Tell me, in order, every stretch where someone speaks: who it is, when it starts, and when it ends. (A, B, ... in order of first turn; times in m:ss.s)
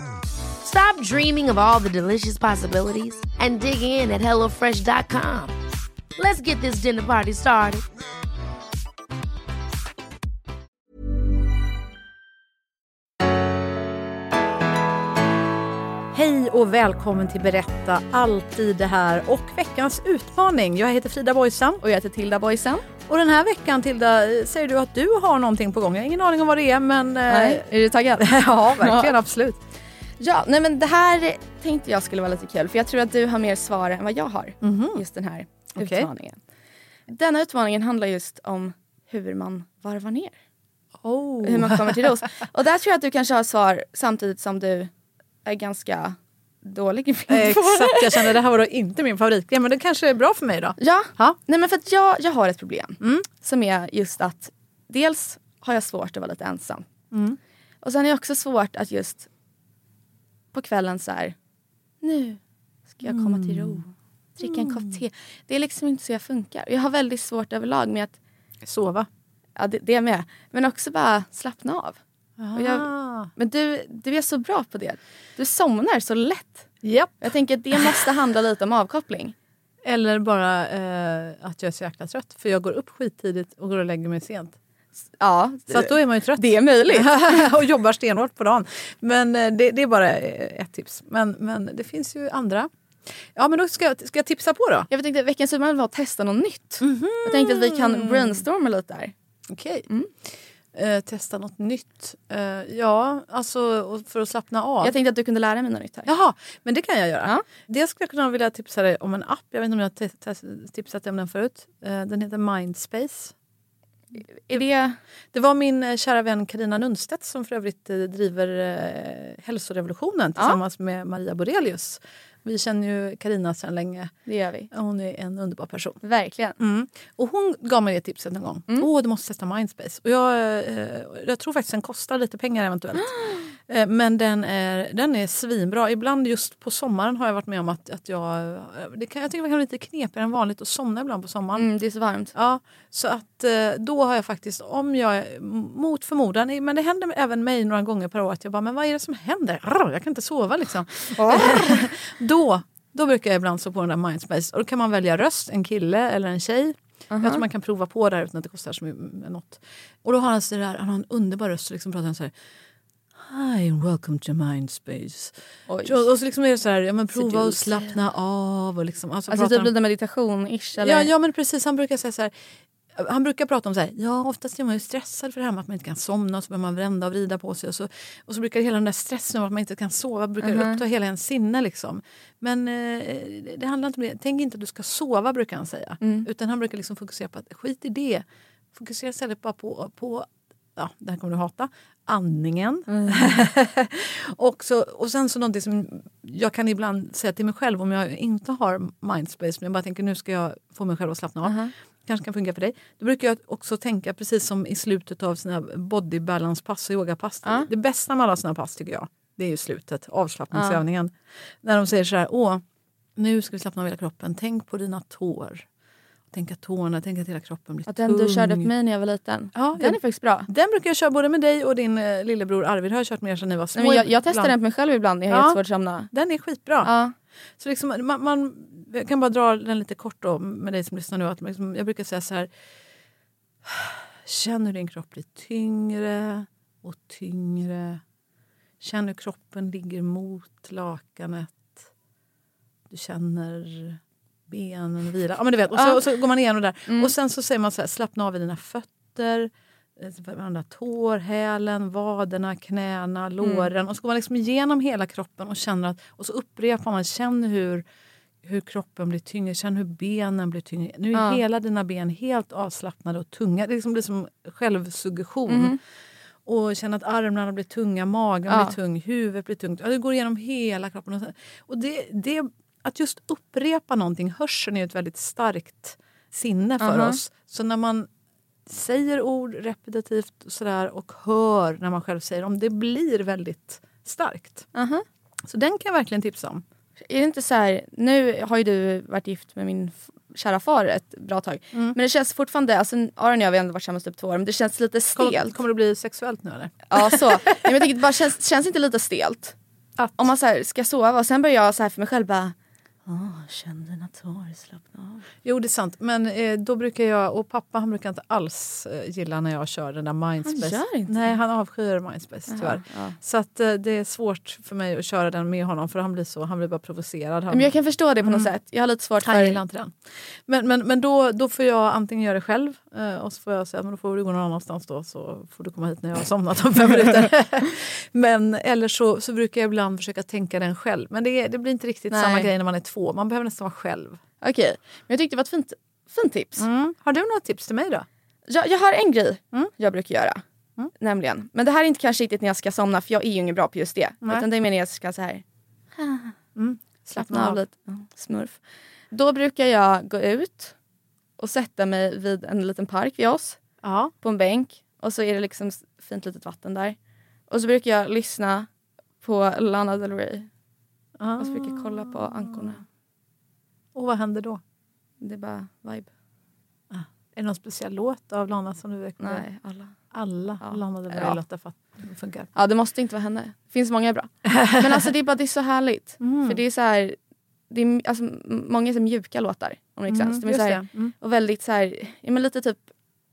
0:00.6-0:05.6 A
0:06.2-0:07.9 A
0:16.1-0:21.8 B
0:21.8-0:22.9 C
0:23.1-0:29.6 B
0:27.3-0:29.2 C
0:30.2-0:36.4 C
0:34.6-0:35.0 B
0:35.8-0:36.1 B
0:37.1-0:40.4 C
0:41.0-0:42.1 B
0:41.4-0:44.9 C
0:45.4-0:48.3 C
0:47.3-0:51.4 B
0:50.8-0:56.9 C
0:53.0-0:53.3 B
0:57.1-0:57.4 B
0:57.8-0:59.3 C
1:00.5-1:01.4 C
1:02.0-1:08.2 C
1:03.0-1:03.8 B
1:04.4-1:05.0 B
1:08.6-1:09.1 B
1:09.6-1:12.0 C
1:12.4-1:13.3 B
1:12.5-1:16.7 C
1:16.8-1:18.0 B
1:17.2-1:19.4 C
1:19.8-1:24.6 B
1:25.2-1:27.6 C
1:25.7-1:32.7 B
1:33.2-1:34.9 B
1:34.9-1:39.1 C
1:36.8-1:38.4 B
1:39.5-1:39.9 B
1:40.7-1:45.0 B
1:44.8-1:46.1 C
1:46.1-1:53.3 B
1:54.2-1:55.0 C
1:55.3-2:04.2 B
2:04.3-2:04.7 C
2:04.7-2:06.0 B
2:06.0-2:06.6 C
2:06.6-2:21.7 B
2:12.9-2:13.5 C
2:21.5-2:22.3 C
2:22.3-2:42.3 B
2:31.2-2:31.9 C
2:37.1-2:37.4 C
2:43.2-2:49.7 B
2:45.7-2:46.1 C
2:47.1-2:48.0 C
2:49.3-2:51.1 C
2:50.8-2:52.3 B
2:52.9-3:32.6 B
3:00.4-3:00.8 C
3:06.0-3:06.3 C
3:12.9-3:13.2 C
3:21.4-3:21.7 C
3:27.4-3:27.7 C
3:30.5-3:30.8 C
3:33.2-3:35.7 B
3:36.3-3:38.7 B
3:37.9-3:40.5 C
3:39.5-3:44.6 B
3:43.7-3:46.1 C
3:45.3-3:46.9 B
3:46.8-3:47.1 C
3:47.6-3:52.5 B
3:53.6-3:58.0 B
3:58.8-4:01.9 B
4:02.9-4:17.8 B
4:05.7-4:06.0 C
4:06.9-4:07.1 C
4:13.4-4:13.7 C
4:18.4-4:25.8 B
4:21.1-4:21.4 C
4:25.5-4:25.8 C
4:26.5-4:38.1 B
4:28.5-4:28.8 C
4:36.8-4:37.2 C
4:38.7-4:44.7 B
4:44.7-4:45.0 C
4:45.5-4:46.6 B
4:47.0-4:55.6 C
4:55.2-4:57.7 B
4:56.9-4:59.6 C
5:00.0-5:00.3 B
5:00.2-5:02.6 C
5:03.1-5:05.2 C
5:05.4-5:18.5 B
5:10.4-5:11.4 C
5:12.5-5:13.2 C
5:17.5-5:19.6 C
5:19.2-5:34.2 B
5:32.1-5:32.5 C
5:34.4-5:36.7 C
5:36.6-5:38.0 B
5:38.5-5:40.4 C
5:41.0-5:45.4 C
5:46.0-5:46.4 C
5:46.6-5:47.6 B
5:47.1-5:50.8 C
5:51.4-5:53.6 C
5:53.8-5:54.1 B
5:54.2-5:57.0 C
5:57.5-5:58.7 C
5:59.2-6:00.5 C
6:01.2-6:02.8 B
6:01.4-6:02.8 C
6:04.0-6:04.6 B
6:05.2-6:06.1 C
6:06.9-6:09.5 B
6:09.2-6:11.4 C
6:10.1-6:12.5 B
6:12.5-6:22.8 C
6:16.2-6:16.6 B
6:20.1-6:21.1 B